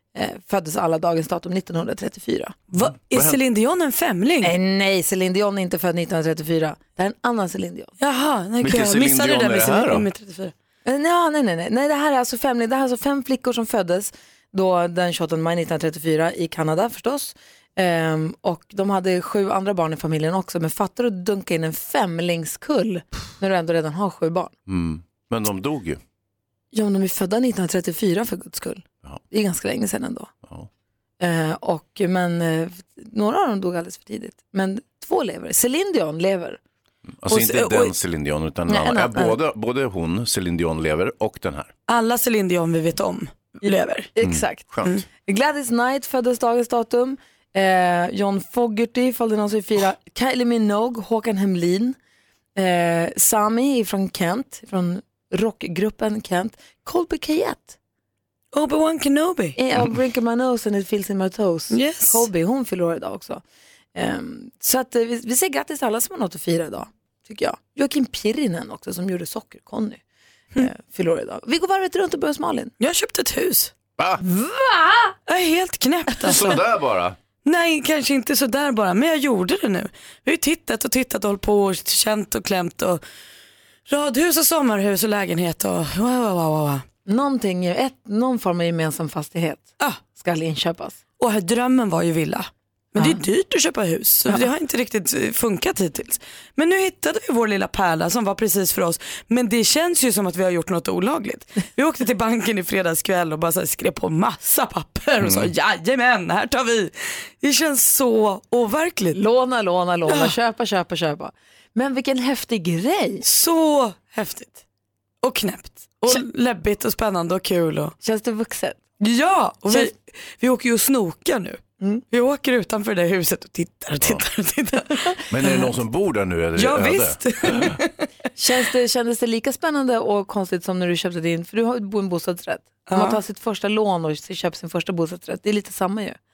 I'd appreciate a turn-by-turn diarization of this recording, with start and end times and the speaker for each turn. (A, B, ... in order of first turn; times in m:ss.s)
0:00.1-0:02.6 A
0:02.7-0:04.5 B
0:02.8-0:03.4 C
0:04.4-0:07.9 A
0:08.0-0:10.5 B
0:08.6-0:10.0 C
0:10.8-0:24.5 A
0:24.7-0:26.0 C
0:26.7-0:30.3 A
0:31.2-0:36.6 A
0:37.2-0:41.7 C
0:37.3-0:37.9 B
0:38.7-0:39.4 A
0:41.9-0:44.1 B
0:44.2-0:44.7 A
0:44.2-0:45.0 C
0:45.2-0:52.0 A
0:52.6-0:57.8 A
0:58.5-0:59.6 B
0:59.6-1:03.4 A
1:01.7-1:02.2 B
1:03.9-1:10.0 A
1:10.6-1:12.7 A
1:12.8-1:13.7 B
1:14.2-1:15.2 A
1:15.3-1:16.6 B
1:16.2-1:17.2 C
1:17.4-1:23.0 B
1:23.9-1:26.8 B
1:27.0-1:31.0 A
1:31.2-1:49.2 B
1:45.2-1:45.5 C
1:49.1-1:53.2 A
1:50.1-1:50.3 B
1:53.2-1:54.6 B
1:55.2-1:57.9 B
1:58.0-1:58.8 A
1:59.0-2:05.7 B
2:04.0-2:04.2 C
2:05.3-2:07.8 C
2:06.6-2:08.0 B
2:08.4-2:16.2 A
2:12.9-2:13.2 B